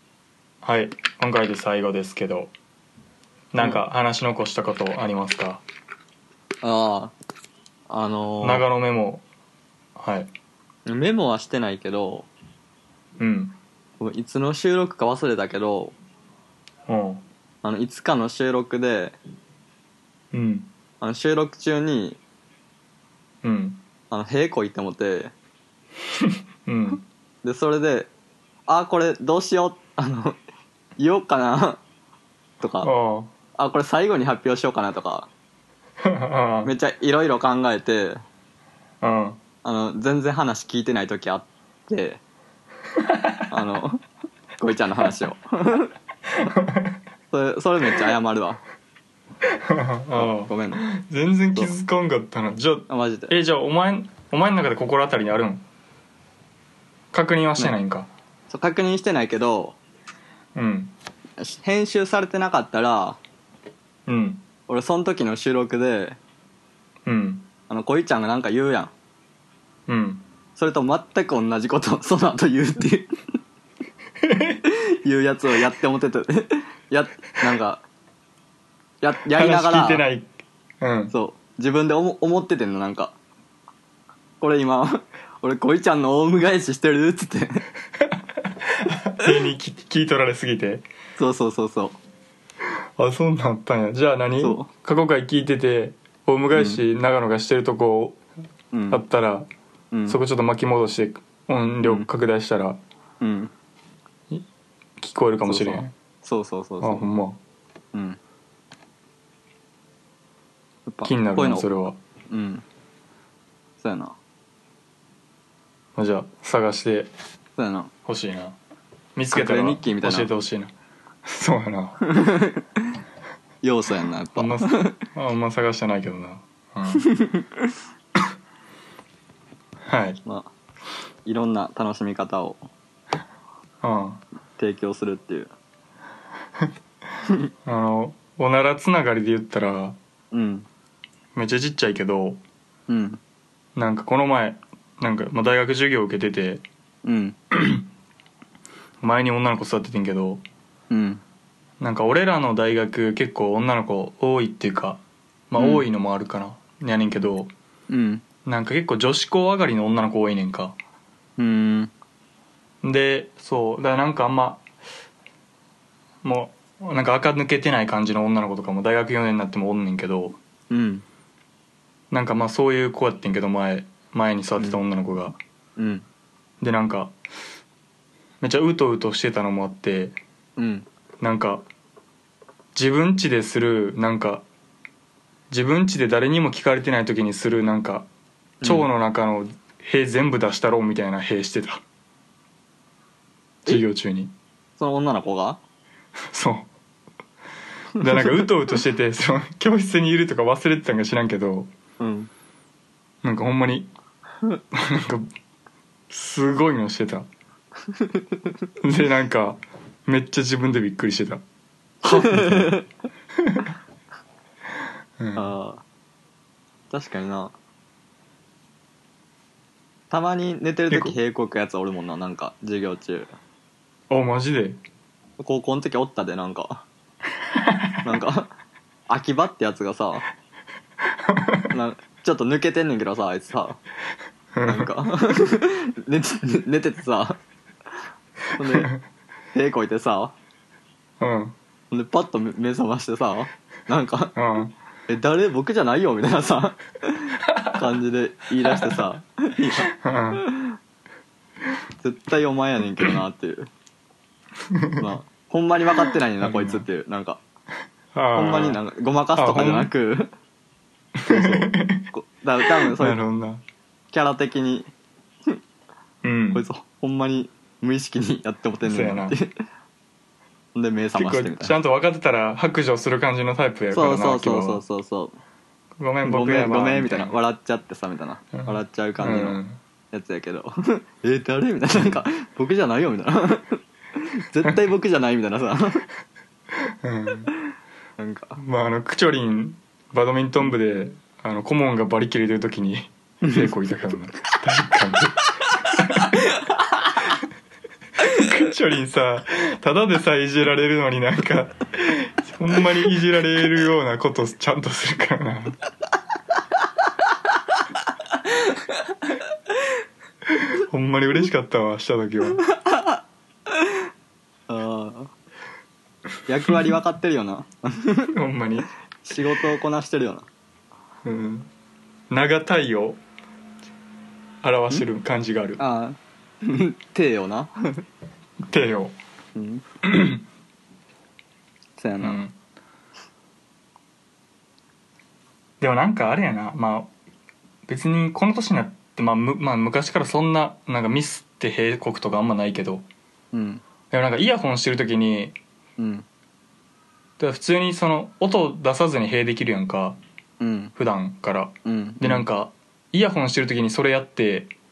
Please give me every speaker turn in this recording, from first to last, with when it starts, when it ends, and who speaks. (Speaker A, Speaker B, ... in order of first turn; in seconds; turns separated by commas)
Speaker A: 0.6-2.5, Speaker A: 3.5-5.6, Speaker B: 6.6-7.1, Speaker B: 7.9-8.6, Speaker A: 8.4-9.2, Speaker A: 9.9-10.3, Speaker B: 10.9-12.3, Speaker A: 13.2-13.6, Speaker B: 14.0-15.9, Speaker A: 16.9-17.2, Speaker B: 17.6-19.2, Speaker A: 20.3-20.7, Speaker B: 21.0-22.2, Speaker A: 23.4-23.8, Speaker B: 24.1-25.3, Speaker A: 26.6-27.0, Speaker B: 27.4-28.1, Speaker B: 28.7-30.4, Speaker B: 31.0-31.8, Speaker B: 32.6-32.9, Speaker A: 32.8-33.3, Speaker B: 33.6-35.3, Speaker A: 36.0-36.7, Speaker B: 36.6-38.2, Speaker A: 39.0-39.4, Speaker B: 39.6-42.2, Speaker B: 43.5-44.0, Speaker B: 44.6-45.9, Speaker A: 46.5-46.8, Speaker B: 47.3-48.6, Speaker A: 49.7-55.6, Speaker B: 50.1-50.8, Speaker B: 52.9-53.4, Speaker A: 57.1-58.1, Speaker B: 58.5-59.8, Speaker A: 60.5-60.9, Speaker B: 61.4-63.2, Speaker A: 64.1-64.4, Speaker B: 64.7-66.2, Speaker A: 67.0-67.5, Speaker B: 67.7-68.9, Speaker A: 69.9-70.2, Speaker B: 70.5-73.1, Speaker A: 74.2-74.6, Speaker B: 74.6-77.8, Speaker B: 79.0-80.0, Speaker A: 79.3-80.3, Speaker A: 80.8-81.1, Speaker B: 81.1-83.1, Speaker B: 84.4-87.7, Speaker A: 88.7-90.8, Speaker B: 91.2-92.0, Speaker A: 93.0-98.2, Speaker B: 94.4-94.7, Speaker B: 96.5-96.8, Speaker B: 98.7-99.0, Speaker A: 98.9-99.5, Speaker B: 99.9-100.2, Speaker A: 100.1-102.8, Speaker B: 101.8-102.1, Speaker B: 103.2-103.5, Speaker A: 105.0-105.9, Speaker B: 105.4-107.1, Speaker A: 106.8-107.4, Speaker B: 107.9-108.2, Speaker B: 110.9-111.7, Speaker A: 111.0-112.0, Speaker B: 112.3-112.6, Speaker B: 113.8-114.2, Speaker A: 116.0-117.1, Speaker B: 117.6-117.9, Speaker A: 118.0-118.6, Speaker A: 119.2-120.7, Speaker B: 119.3-120.3, Speaker A: 121.2-122.0, Speaker B: 122.0-122.8, Speaker B: 123.6-125.0, Speaker A: 124.3-127.1, Speaker B: 127.1-127.5, Speaker A: 129.9-130.2, Speaker B: 130.2-130.5, Speaker B: 131.2-132.6, Speaker A: 133.8-134.2, Speaker B: 134.6-135.5, Speaker A: 137.6-140.0, Speaker B: 140.3-140.7, Speaker A: 141.3-142.4, Speaker B: 142.9-143.2, Speaker A: 143.8-146.6, Speaker B: 147.0-147.4, Speaker A: 147.5-147.8, Speaker A: 149.0-150.4, Speaker B: 150.9-151.2, Speaker A: 151.8-157.5, Speaker B: 155.6-155.8, Speaker B: 157.9-158.2, Speaker A: 158.4-160.8, Speaker B: 161.4-161.9, Speaker A: 162.8-164.6, Speaker A: 166.2-170.4, Speaker B: 170.7-171.0, Speaker A: 172.1-175.3, Speaker B: 175.8-176.1, Speaker A: 176.6-177.1, Speaker A: 178.4-180.2, Speaker B: 180.6-180.9, Speaker A: 181.2-181.6, Speaker A: 182.7-184.4, Speaker A: 185.5-188.1, Speaker A: 188.6-191.8, Speaker B: 188.6-188.9, Speaker A: 193.7-194.3, Speaker B: 194.8-195.6, Speaker A: 196.3-196.7, Speaker A: 198.0-201.7, Speaker B: 198.1-198.4, Speaker B: 202.0-202.3, Speaker A: 203.2-203.9, Speaker A: 204.7-205.3, Speaker A: 206.1-207.3, Speaker B: 207.9-208.2, Speaker A: 208.8-211.4, Speaker A: 212.0-212.8, Speaker B: 212.1-212.8, Speaker A: 215.2-215.5, Speaker B: 215.3-215.8, Speaker B: 216.9-217.5, Speaker B: 220.1-223.3, Speaker A: 220.9-221.2, Speaker A: 224.1-224.8, Speaker B: 225.4-226.9, Speaker A: 227.6-228.1, Speaker B: 228.0-228.5, Speaker B: 229.1-230.2, Speaker A: 231.4-231.7, Speaker B: 231.7-233.8, Speaker A: 234.5-234.9, Speaker B: 234.6-237.4, Speaker B: 238.6-238.9, Speaker A: 238.7-239.0, Speaker B: 239.5-240.3, Speaker A: 241.2-241.6, Speaker B: 241.9-244.3, Speaker A: 244.3-244.7, Speaker B: 245.1-250.8, Speaker A: 249.8-250.4, Speaker B: 252.0-253.7, Speaker A: 254.7-255.1, Speaker B: 255.0-257.4, Speaker A: 256.4-256.9, Speaker A: 258.1-258.8, Speaker B: 258.3-260.3, Speaker A: 259.3-259.9, Speaker A: 261.2-262.1, Speaker B: 261.3-263.2, Speaker A: 262.9-263.6, Speaker B: 264.1-264.9, Speaker A: 266.2-266.6, Speaker B: 266.5-269.5, Speaker A: 268.9-269.4, Speaker B: 270.7-271.8, Speaker A: 271.1-274.8, Speaker B: 273.9-275.4, Speaker A: 276.0-277.4, Speaker B: 276.2-279.6, Speaker A: 278.5-279.8, Speaker B: 280.1-283.8, Speaker A: 281.9-282.2, Speaker B: 284.4-286.0, Speaker A: 287.0-287.5, Speaker B: 288.2-288.6, Speaker A: 288.6-295.4, Speaker A: 295.9-296.3, Speaker A: 298.3-305.8, Speaker B: 308.4-308.8, Speaker A: 310.7-312.6, Speaker B: 312.7-313.2, Speaker B: 314.7-315.3, Speaker B: 316.5-318.3, Speaker A: 318.3-318.9, Speaker B: 319.2-320.5, Speaker A: 321.2-321.7, Speaker A: 322.3-323.2, Speaker A: 324.6-325.8, Speaker B: 325.8-328.0, Speaker A: 328.6-329.1, Speaker B: 329.6-329.8, Speaker A: 330.0-330.4, Speaker B: 332.0-332.4, Speaker A: 332.2-332.6, Speaker A: 335.8-337.1, Speaker A: 337.9-343.1, Speaker B: 343.5-343.8, Speaker A: 344.1-345.6, Speaker B: 346.0-346.2, Speaker A: 347.4-350.2, Speaker B: 350.6-350.9, Speaker A: 350.9-354.7, Speaker B: 351.8-352.4